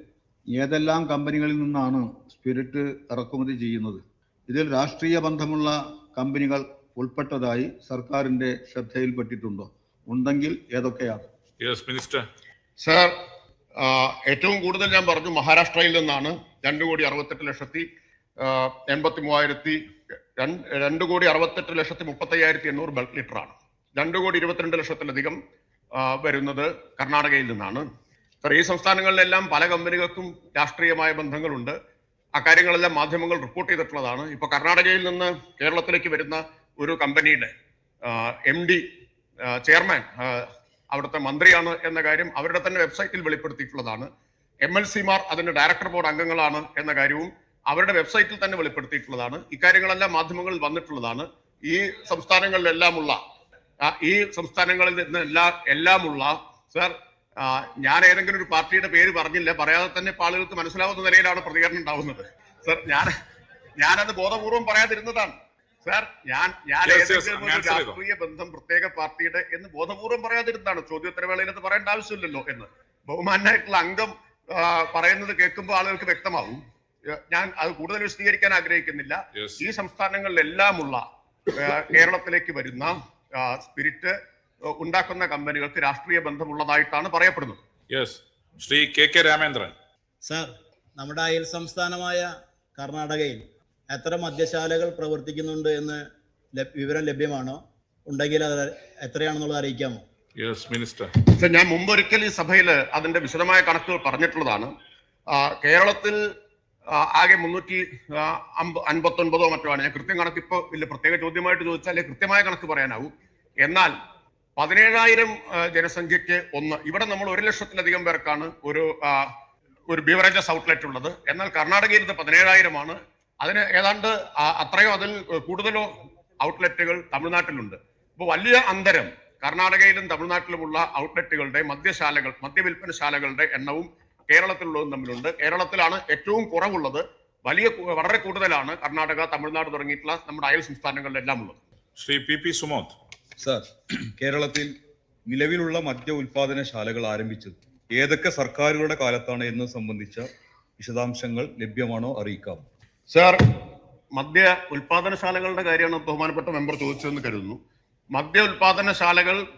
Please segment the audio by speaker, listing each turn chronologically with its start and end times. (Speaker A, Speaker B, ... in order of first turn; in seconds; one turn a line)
Speaker A: 0.5-11.3
Speaker B: 11.6-12.2
Speaker C: 12.8-13.1
Speaker C: 13.8-17.9
Speaker C: 18.4-19.8
Speaker C: 20.4-25.4
Speaker C: 25.9-27.8
Speaker C: 28.4-31.8
Speaker C: 32.3-37.5
Speaker C: 38.0-38.8
Speaker C: 39.5-44.1
Speaker C: 44.6-53.2
Speaker C: 53.8-63.1
Speaker C: 63.8-76.6
Speaker B: 66.8-68.0
Speaker C: 77.1-84.2
Speaker B: 79.3-79.6
Speaker C: 84.7-87.6
Speaker B: 87.9-89.7
Speaker D: 90.2-96.0
Speaker D: 96.6-100.0
Speaker B: 100.4-101.1
Speaker C: 101.4-104.7
Speaker C: 105.3-106.2
Speaker C: 106.9-113.1
Speaker C: 113.6-113.9
Speaker C: 114.6-119.3
Speaker C: 119.9-141.6
Speaker B: 142.0-143.0
Speaker E: 143.4-144.7
Speaker E: 145.3-150.3
Speaker E: 150.8-152.7
Speaker C: 153.1-153.4
Speaker C: 154.2-157.6
Speaker C: 158.1-159.4